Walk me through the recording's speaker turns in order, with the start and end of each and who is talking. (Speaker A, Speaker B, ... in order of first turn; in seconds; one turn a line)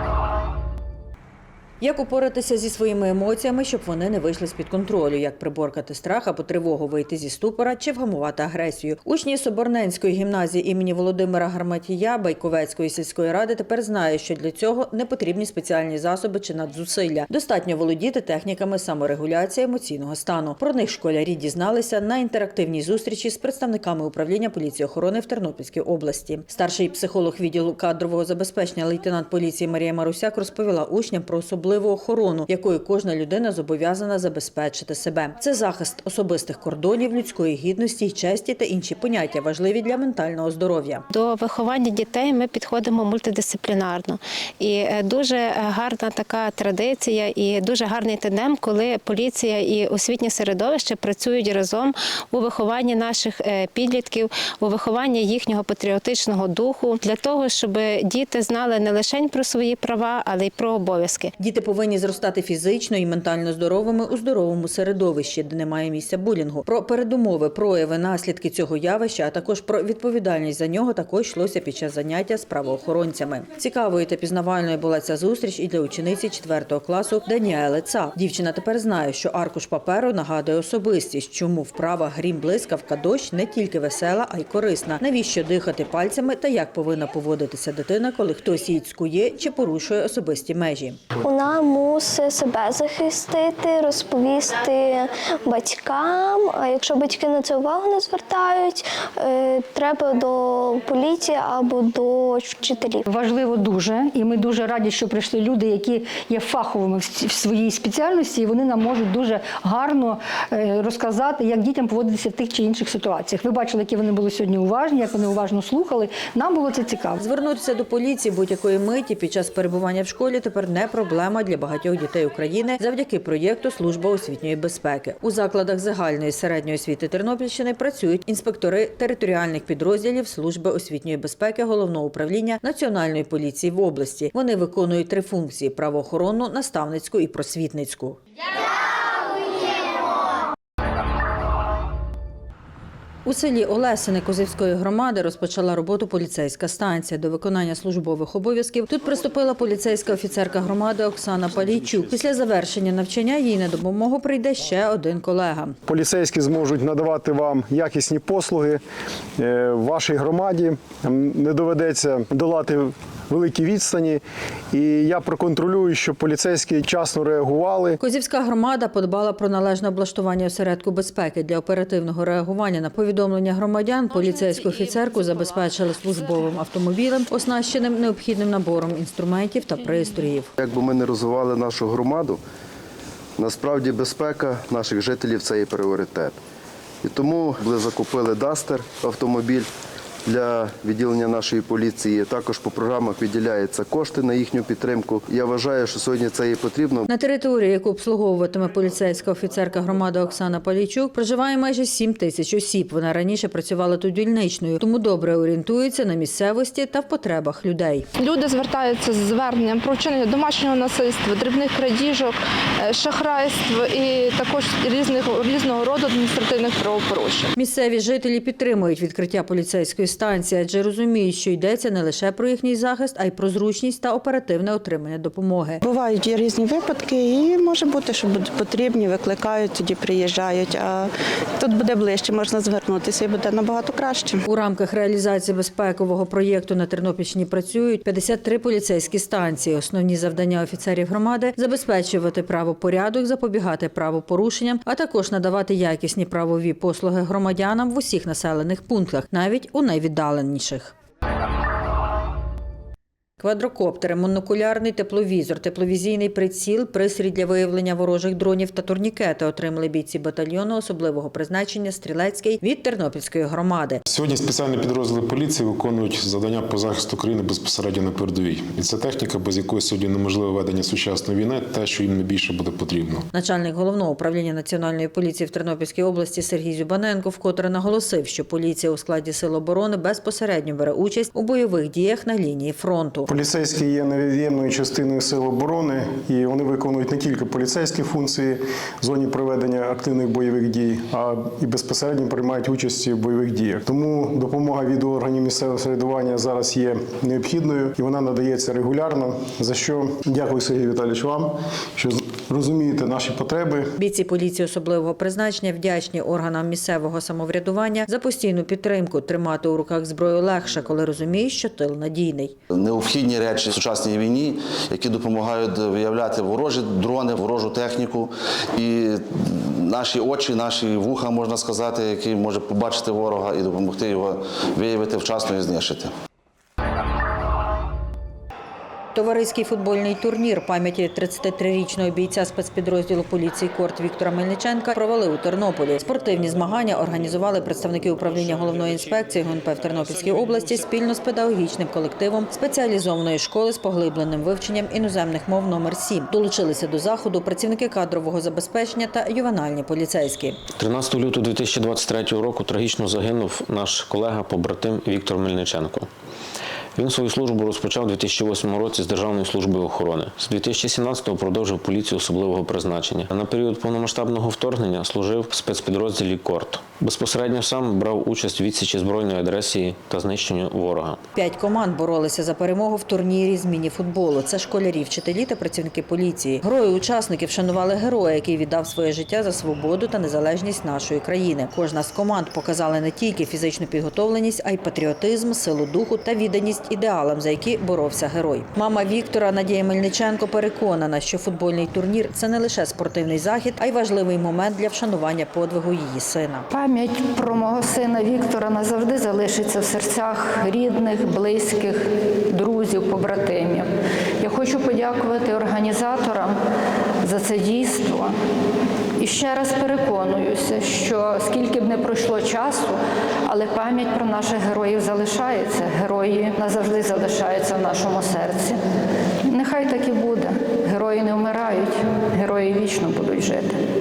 Speaker A: 1.8-41.0
Speaker B: 41.1-61.3
Speaker A: 61.4-91.0
Speaker C: 91.2-103.0
Speaker D: 103.1-117.2
Speaker A: 117.2-138.2
Speaker A: 143.2-155.8
Speaker E: 155.9-158.8
Speaker E: 159.4-168.0
Speaker A: 168.0-180.5
Speaker F: 180.6-182.4
Speaker F: 183.4-186.3
Speaker F: 187.1-189.7
Speaker F: 190.3-197.1
Speaker A: 197.1-208.1
Speaker G: 208.2-217.5
Speaker A: 217.6-225.8
Speaker H: 225.8-234.4
Speaker A: 234.5-250.9
Speaker A: 253.4-264.0
Speaker I: 264.1-273.2
Speaker A: 273.3-283.3
Speaker E: 283.3-303.9
Speaker A: 304.0-312.5
Speaker J: 312.8-326.1
Speaker A: 329.1-350.6
Speaker K: 350.8-356.1
Speaker K: 357.0-371.2
Speaker A: 371.3-396.7
Speaker L: 396.7-406.6
Speaker L: 407.2-408.4
Speaker L: 409.2-418.8
Speaker L: 419.4-423.8